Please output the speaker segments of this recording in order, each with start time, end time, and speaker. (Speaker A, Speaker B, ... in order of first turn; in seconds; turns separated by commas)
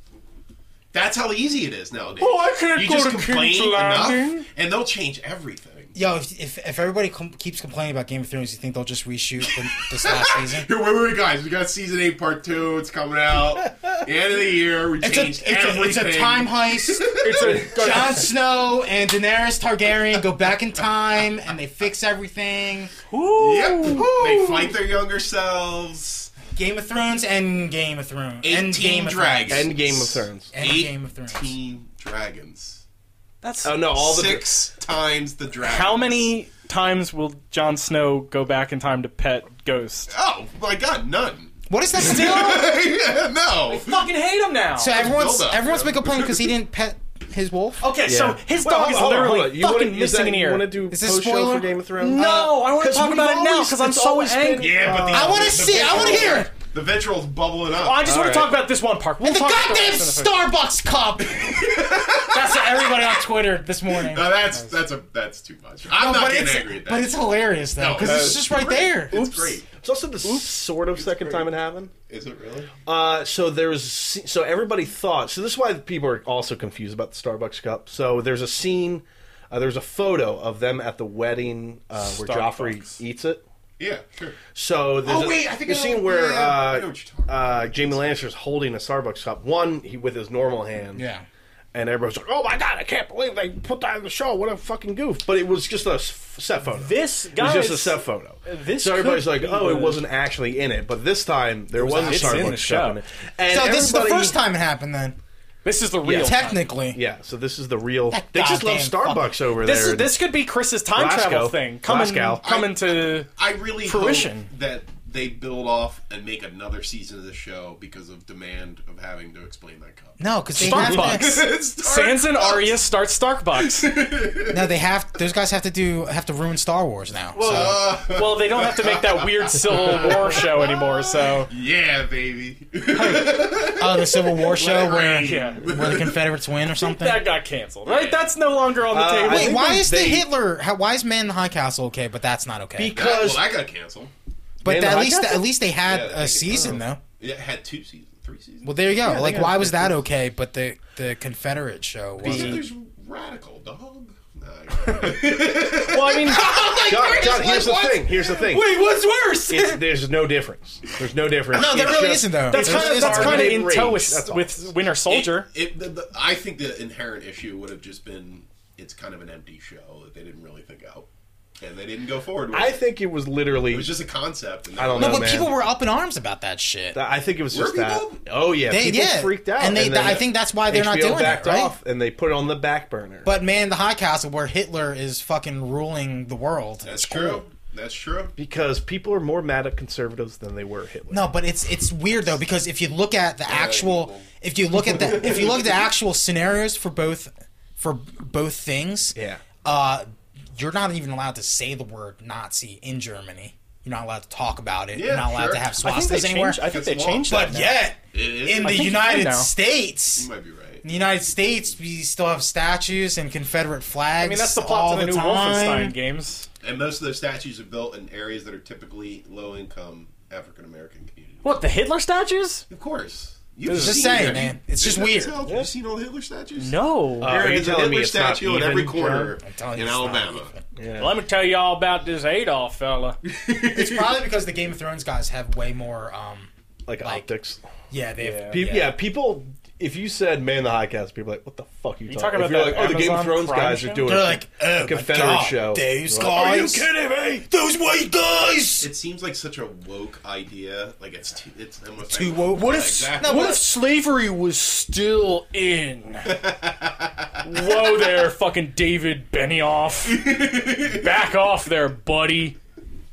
Speaker A: 0.9-5.9, Speaker B: 2.2-4.5, Speaker C: 5.9-10.7, Speaker A: 9.9-18.0, Speaker C: 15.0-22.9, Speaker B: 17.2-18.3, Speaker B: 23.1-24.7, Speaker A: 23.4-26.3, Speaker C: 26.5-29.7, Speaker A: 28.4-32.8, Speaker D: 29.5-30.5, Speaker C: 30.5-31.5, Speaker B: 33.4-34.0, Speaker D: 33.6-34.5, Speaker A: 33.9-36.3, Speaker B: 35.6-40.1, Speaker A: 40.1-44.1, Speaker C: 41.7-42.7, Speaker B: 43.7-45.0, Speaker C: 44.8-47.8, Speaker A: 44.9-46.5, Speaker B: 47.8-50.7, Speaker D: 48.0-56.4, Speaker C: 50.9-52.2, Speaker B: 52.0-55.1, Speaker A: 54.6-58.1, Speaker C: 55.1-56.5, Speaker B: 57.8-60.4, Speaker D: 58.0-58.6, Speaker C: 59.2-64.8, Speaker A: 61.3-63.2, Speaker A: 63.9-69.7, Speaker C: 65.9-69.6, Speaker D: 68.0-68.4, Speaker D: 69.7-71.9, Speaker A: 71.0-71.5, Speaker A: 72.1-72.7, Speaker D: 72.8-83.4, Speaker B: 82.0-83.0, Speaker A: 83.8-84.4, Speaker D: 84.5-91.0, Speaker A: 85.0-88.2, Speaker C: 91.0-91.2, Speaker D: 91.7-104.4, Speaker B: 96.7-100.0, Speaker C: 101.8-102.6, Speaker B: 102.0-103.0, Speaker C: 103.5-105.2, Speaker B: 105.6-106.7, Speaker D: 106.0-106.4, Speaker C: 106.1-107.0, Speaker D: 106.9-110.2, Speaker C: 108.1-109.3, Speaker B: 109.5-113.3, Speaker D: 110.9-112.4, Speaker A: 112.4-122.8, Speaker B: 113.8-114.5, Speaker C: 120.2-121.5, Speaker B: 120.5-123.9, Speaker A: 123.6-124.7, Speaker C: 124.5-127.9, Speaker A: 127.4-136.2, Speaker B: 128.1-131.5, Speaker C: 132.9-137.2, Speaker B: 134.8-135.9, Speaker B: 136.8-139.7, Speaker A: 137.8-138.3, Speaker D: 138.9-140.3, Speaker C: 139.2-143.0, Speaker D: 142.8-143.5, Speaker A: 142.9-144.1, Speaker C: 144.6-147.0, Speaker D: 144.6-145.4, Speaker A: 145.8-148.9, Speaker C: 148.6-152.6, Speaker D: 149.0-150.0, Speaker A: 152.2-157.2, Speaker D: 152.2-152.6, Speaker D: 155.0-158.7, Speaker C: 156.2-158.0, Speaker B: 156.5-159.8, Speaker D: 159.5-164.6, Speaker C: 161.5-163.6, Speaker B: 162.5-165.5, Speaker A: 165.1-171.1, Speaker A: 171.6-172.8, Speaker D: 172.5-173.9, Speaker A: 173.7-175.5, Speaker D: 174.8-175.5, Speaker C: 175.0-177.0, Speaker D: 176.9-183.3, Speaker A: 177.5-178.2, Speaker C: 178.7-181.7, Speaker C: 183.2-187.4, Speaker A: 186.8-188.3, Speaker D: 188.4-191.3, Speaker C: 191.1-206.7, Speaker A: 193.4-194.3, Speaker A: 194.8-195.8, Speaker D: 199.1-199.4, Speaker A: 204.9-205.7, Speaker B: 205.8-207.8, Speaker A: 206.6-207.5, Speaker C: 207.3-210.3, Speaker A: 208.1-209.0, Speaker B: 208.6-209.5, Speaker A: 210.2-210.8, Speaker C: 210.8-215.9, Speaker B: 214.2-216.5, Speaker A: 216.6-221.6, Speaker B: 221.4-222.6, Speaker A: 222.7-230.5, Speaker B: 223.7-224.4, Speaker C: 223.7-225.4, Speaker D: 225.4-225.7, Speaker B: 226.6-227.4, Speaker D: 227.2-229.4, Speaker C: 229.4-230.6, Speaker D: 230.8-231.1, Speaker B: 231.0-233.2, Speaker A: 233.5-234.1, Speaker C: 233.6-236.5, Speaker D: 236.8-237.7, Speaker C: 237.0-237.3, Speaker C: 237.9-238.9, Speaker B: 238.2-238.6, Speaker D: 238.4-247.4, Speaker B: 242.1-244.2, Speaker C: 244.0-246.9, Speaker C: 247.5-248.9, Speaker A: 248.8-253.6, Speaker C: 252.0-253.6, Speaker B: 252.5-256.4, Speaker A: 256.2-258.0, Speaker B: 257.4-262.6, Speaker A: 260.0-261.1